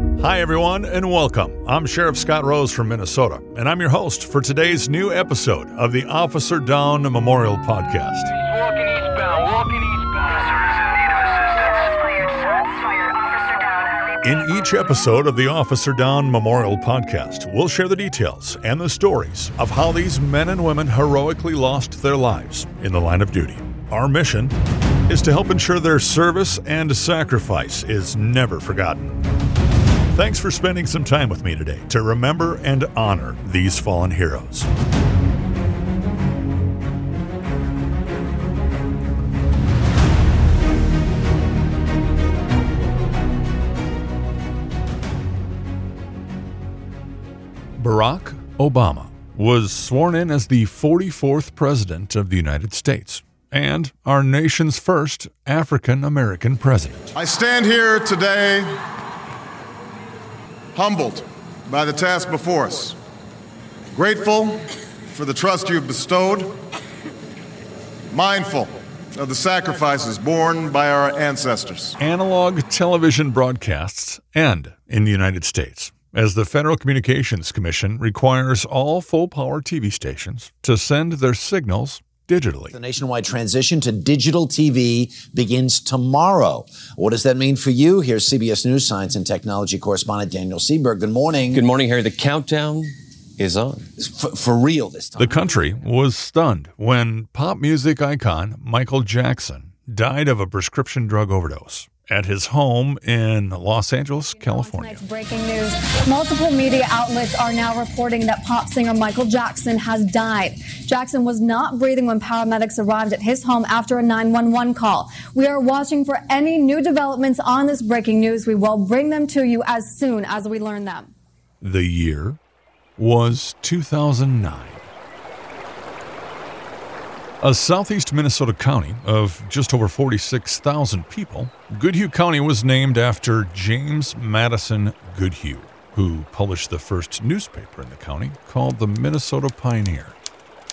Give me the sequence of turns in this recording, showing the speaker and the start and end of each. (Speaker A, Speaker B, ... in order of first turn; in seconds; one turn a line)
Speaker A: 0.2-8.3
Speaker A: 14.2-29.2
Speaker A: 30.1-34.7
Speaker A: 47.8-57.1
Speaker B: 57.1-58.8
Speaker B: 60.8-63.0
Speaker B: 63.9-66.5
Speaker B: 68.1-72.0
Speaker A: 72.0-82.8
Speaker C: 82.7-91.7
Speaker D: 91.5-93.9
Speaker C: 94.0-95.8
Speaker A: 95.2-105.1
Speaker E: 104.3-121.1
Speaker A: 121.6-122.4
Speaker A: 123.0-124.8
Speaker A: 127.4-140.2